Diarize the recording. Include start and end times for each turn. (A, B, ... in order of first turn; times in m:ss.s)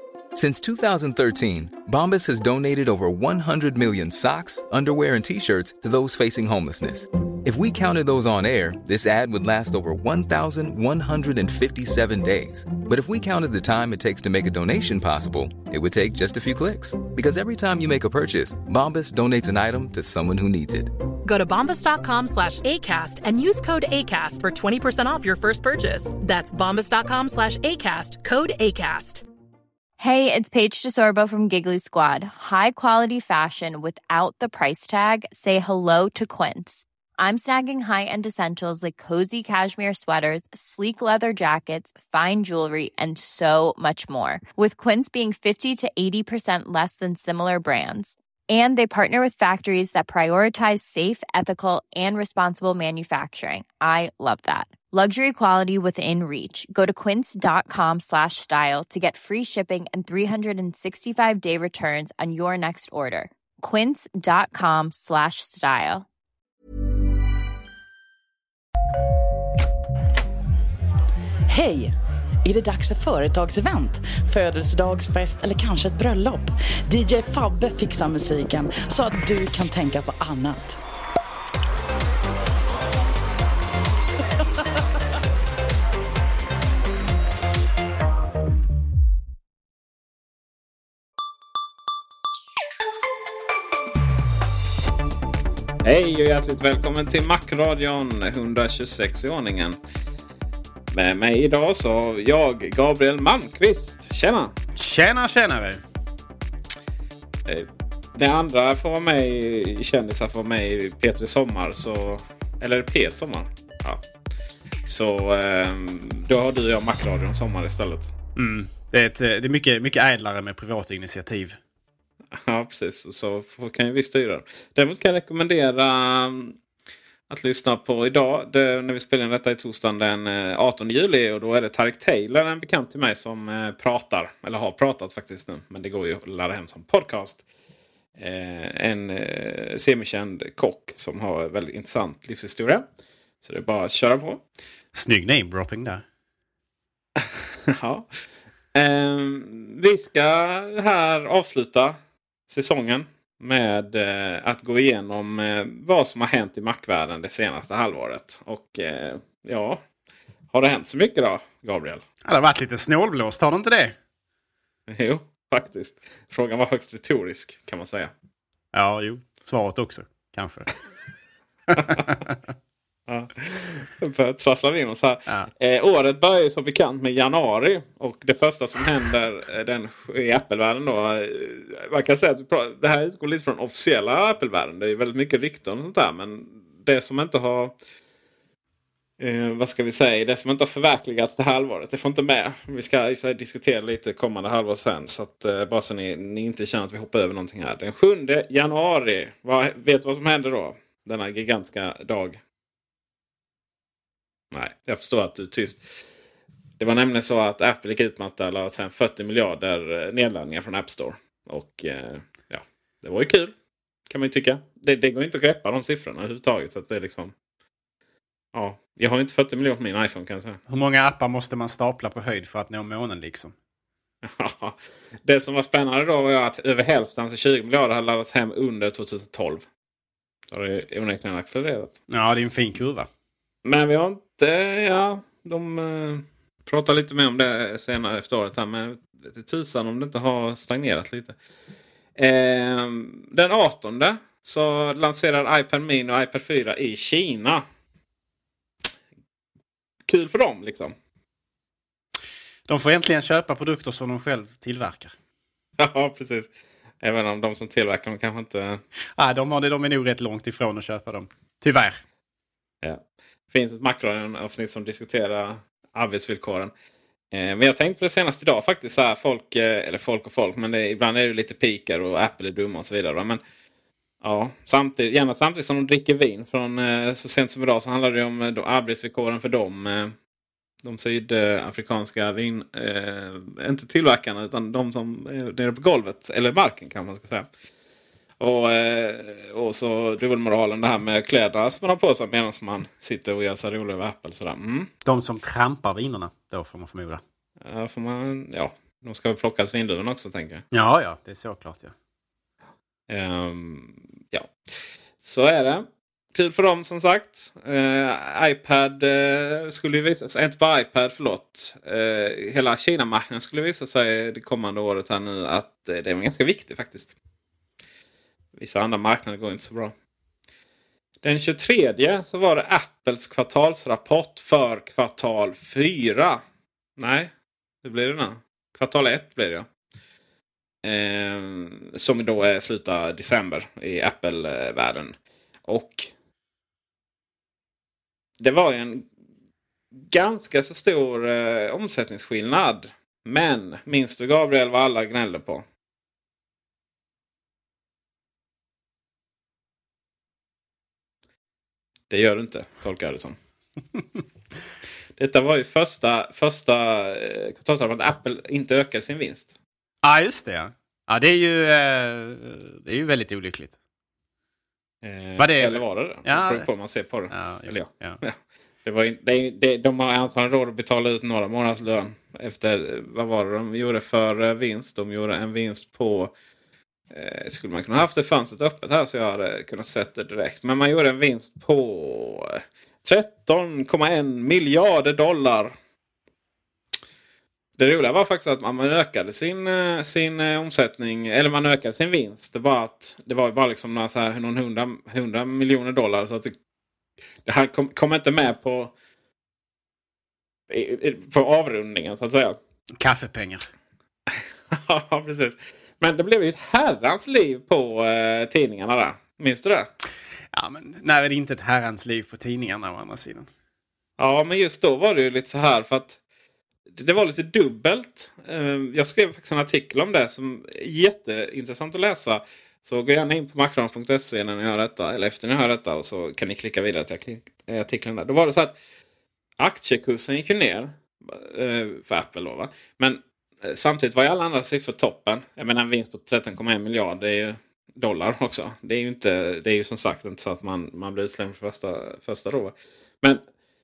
0:00.3-0:20.9 A
0:21.2-0:29.2 B
0:30.0-1:06.0 C
1:11.5-1:20.8 D
1:35.8-1:39.8 E
1:40.9-1:44.5 E
1:44.8-1:45.8 F
1:47.5-1:54.0 E
1:54.9-1:58.1 E
1:58.4-2:01.6 F
2:02.4-2:06.6 E
2:07.3-2:17.4 E
2:18.2-2:22.8 E
2:23.4-2:24.4 E
2:24.9-2:26.0 F
2:27.2-2:28.1 E
2:28.7-2:32.0 E
2:32.5-2:39.8 E
2:40.5-2:42.0 E
2:42.2-2:44.0 F
2:44.9-2:48.1 E
2:48.7-2:50.7 F
2:53.1-3:07.8 E
3:09.2-3:22.4 E
3:24.5-3:25.8 E
3:26.8-3:33.5 E
3:34.1-3:37.3 E
3:38.5-3:40.6 E
3:40.7-3:43.5 F
3:44.2-3:49.6 E
3:50.5-3:52.0 E
3:52.1-3:53.1 F
3:53.6-4:01.4 E
4:02.2-4:07.6 E
4:10.1-4:11.0 E
4:12.7-4:15.1 F
4:15.8-4:18.8 E
4:19.2-4:22.0 F
4:22.8-4:26.7 E
4:27.3-4:33.4 E
4:34.2-4:40.1 E
4:40.8-4:47.5 E
4:48.4-4:54.9 E
4:55.1-4:57.2 F
4:57.6-5:00.6 E
5:00.7-5:01.9 F
5:03.1-5:04.5 E
5:05.2-5:17.1 E
5:18.6-5:19.9 E
5:21.2-5:26.4 E
5:27.0-5:27.3 E
5:27.8-5:29.7 E
5:30.8-5:35.1 E
5:35.7-5:36.1 E
5:38.4-5:39.1 E
5:40.0-5:45.6 E
5:52.1-5:53.4 E
5:55.2-5:59.5 E
6:00.0-6:03.8 F
6:05.0-6:16.3 E
6:05.4-6:06.7 F
6:07.3-6:08.2 F
6:17.1-6:25.7 E
6:27.8-6:36.6 E
6:37.4-6:38.9 E
6:40.7-6:42.6 E
6:43.0-6:43.7 F
6:44.3-6:49.9 E
6:50.5-6:53.5 F
6:54.2-6:56.2 E
6:56.9-7:08.8 E
7:09.6-7:23.4 E